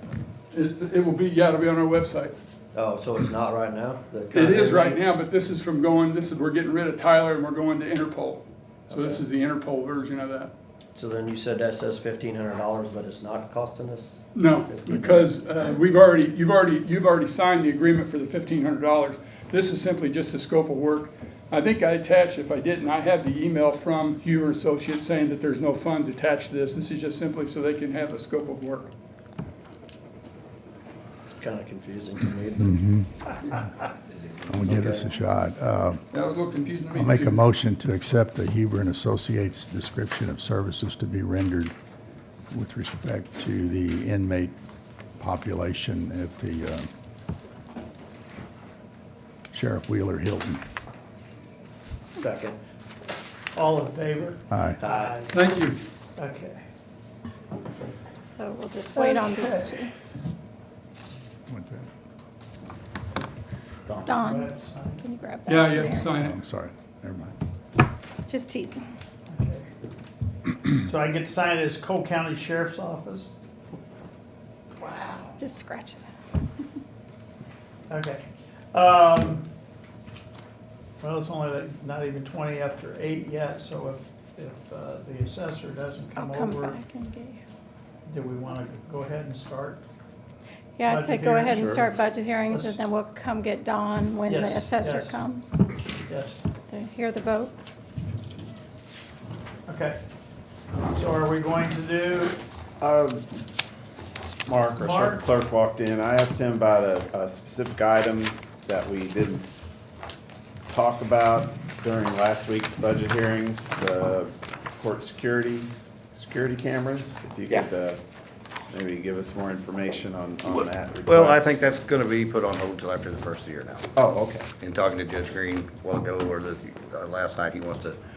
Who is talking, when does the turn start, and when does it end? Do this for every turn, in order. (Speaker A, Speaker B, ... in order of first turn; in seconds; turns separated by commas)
Speaker A: 0.5-2.3, Speaker B: 2.7-5.1, Speaker A: 4.3-10.5, Speaker B: 8.9-9.2, Speaker B: 10.9-15.0, Speaker A: 14.3-28.9, Speaker B: 31.4-32.8, Speaker C: 32.6-33.6, Speaker B: 34.1-35.1, Speaker C: 34.5-36.0, Speaker A: 36.1-37.4, Speaker C: 36.9-41.7, Speaker C: 42.5-44.5, Speaker C: 45.2-46.9, Speaker C: 49.5-50.6, Speaker B: 52.1-52.6, Speaker D: 53.5-55.4, Speaker C: 54.5-54.8, Speaker B: 54.8-55.1, Speaker A: 55.3-55.8, Speaker D: 56.1-56.6, Speaker E: 58.2-59.9, Speaker D: 58.9-59.9, Speaker C: 61.5-61.9, Speaker E: 64.0-66.1, Speaker D: 64.2-65.0, Speaker A: 65.5-66.4, Speaker C: 66.1-67.3, Speaker E: 68.2-68.8, Speaker D: 69.3-69.7, Speaker D: 70.8-73.3, Speaker D: 74.8-75.4, Speaker E: 75.4-76.1, Speaker D: 77.9-79.5, Speaker D: 81.0-86.8, Speaker E: 86.1-87.4, Speaker D: 88.0-89.8, Speaker E: 90.8-95.5, Speaker D: 90.8-91.9, Speaker D: 92.5-92.8, Speaker D: 94.2-95.2, Speaker D: 96.1-96.4, Speaker E: 96.7-97.5, Speaker D: 99.7-100.0, Speaker D: 100.9-102.4, Speaker F: 102.8-103.2, Speaker F: 104.5-109.4, Speaker D: 104.7-105.2, Speaker F: 110.7-118.0, Speaker F: 118.7-121.8, Speaker G: 120.5-123.9, Speaker F: 124.0-124.5, Speaker G: 124.5-128.0